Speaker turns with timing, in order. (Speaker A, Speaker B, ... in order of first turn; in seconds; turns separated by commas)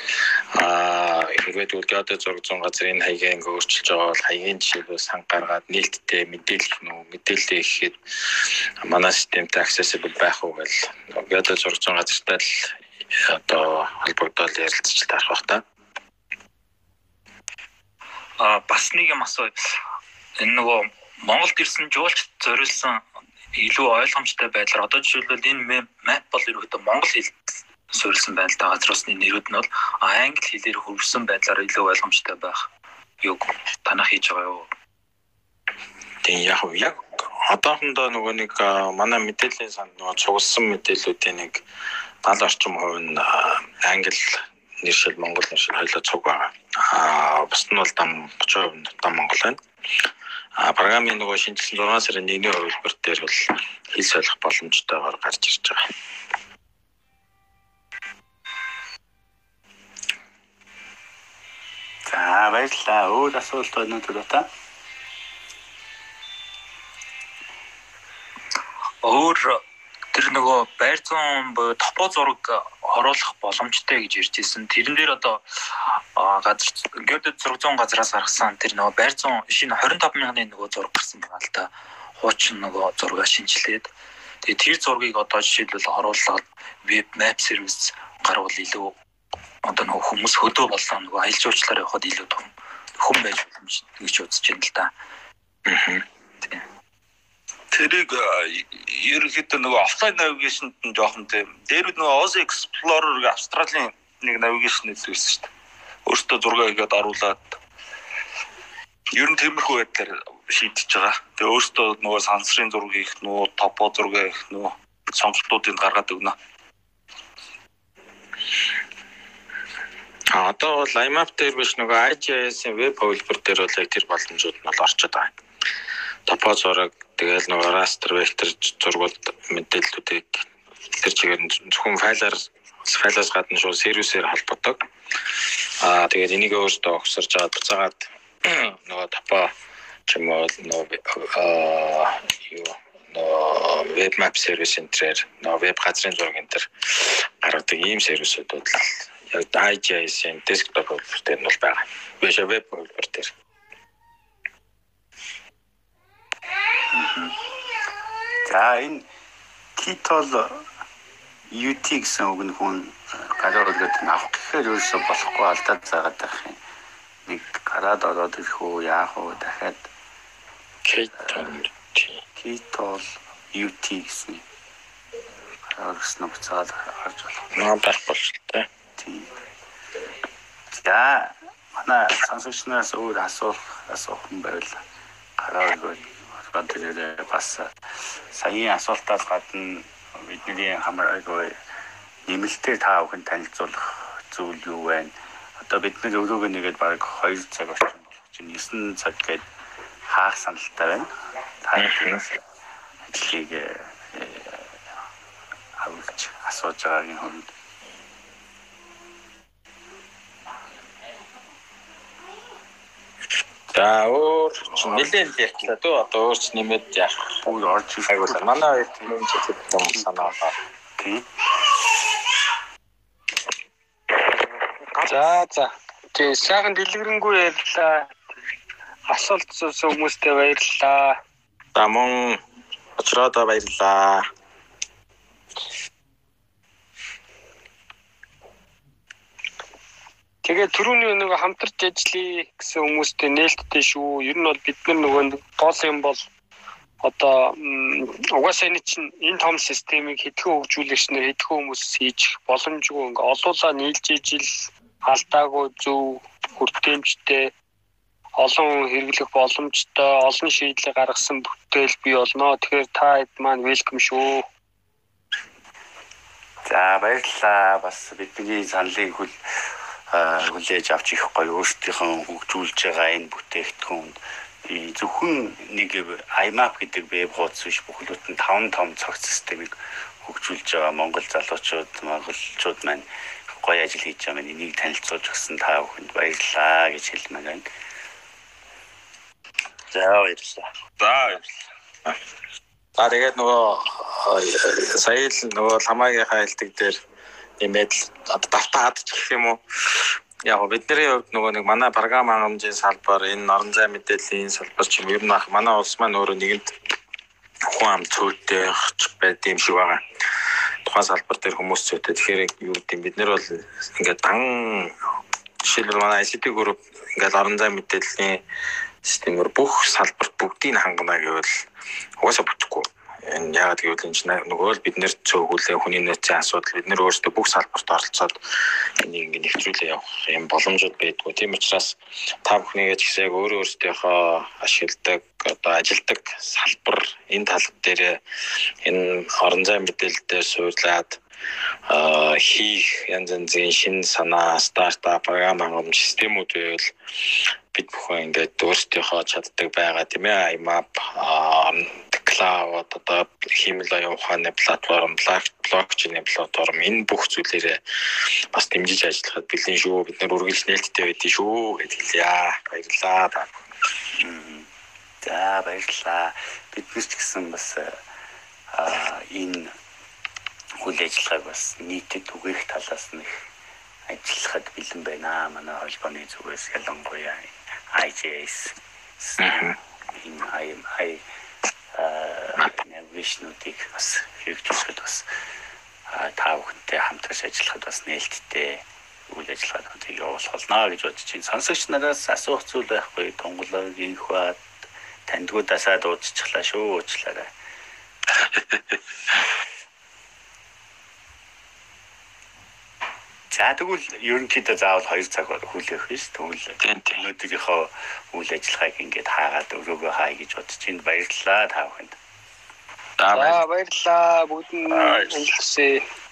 Speaker A: 0.5-15.6, Speaker B: 18.4-19.8, Speaker B: 20.4-32.6, Speaker B: 33.2-34.7, Speaker A: 36.2-41.6, Speaker A: 42.2-49.6, Speaker A: 50.6-55.9, Speaker C: 62.1-64.5, Speaker B: 69.0-69.6, Speaker B: 70.1-83.9, Speaker B: 84.4-89.0, Speaker B: 89.6-94.9, Speaker A: 95.7-96.0, Speaker D: 97.7-105.5, Speaker D: 106.1-107.6, Speaker D: 109.1-116.3, Speaker A: 120.3-125.3, Speaker A: 126.3-134.8, Speaker A: 135.8-139.5, Speaker A: 140.1-153.3, Speaker C: 156.9-157.3, Speaker C: 158.4-159.1, Speaker C: 159.8-160.6, Speaker C: 161.5-166.6, Speaker C: 167.3-169.9, Speaker A: 170.8-172.2, Speaker C: 171.2-171.6, Speaker C: 172.3-174.4, Speaker C: 175.7-177.6, Speaker A: 177.6-178.7, Speaker C: 179.0-179.3, Speaker C: 180.7-184.8, Speaker C: 185.4-191.6, Speaker C: 192.3-199.4, Speaker C: 200.1-201.1, Speaker C: 201.6-202.4, Speaker A: 201.8-202.2, Speaker C: 203.1-204.7, Speaker C: 205.8-207.5, Speaker A: 213.7-217.4, Speaker C: 214.6-215.7, Speaker C: 217.4-219.1, Speaker A: 218.1-220.5, Speaker C: 219.9-220.3, Speaker C: 221.0-221.3, Speaker E: 225.0-228.1, Speaker E: 229.1-231.2, Speaker A: 231.7-232.4, Speaker A: 233.0-234.3, Speaker E: 240.4-246.2, Speaker E: 247.0-257.5, Speaker E: 258.4-264.4, Speaker C: 266.6-269.4, Speaker C: 270.1-283.1, Speaker C: 283.6-287.6, Speaker D: 291.0-291.4, Speaker A: 293.0-297.0, Speaker A: 297.6-306.7, Speaker A: 307.7-310.0, Speaker A: 310.9-314.9, Speaker A: 315.6-318.4, Speaker A: 319.0-321.6, Speaker A: 322.2-328.4, Speaker A: 329.0-338.2, Speaker A: 338.8-341.2, Speaker A: 341.9-346.9, Speaker A: 347.7-357.8, Speaker A: 358.5-363.6, Speaker C: 364.1-364.7, Speaker C: 365.2-368.0, Speaker C: 368.7-369.7, Speaker C: 370.8-373.4, Speaker C: 374.1-381.2, Speaker A: 379.4-379.8, Speaker C: 381.9-385.3, Speaker C: 386.1-394.7, Speaker C: 395.3-397.5, Speaker C: 403.5-412.2, Speaker A: 406.8-407.2, Speaker A: 413.2-413.6, Speaker E: 413.3-416.0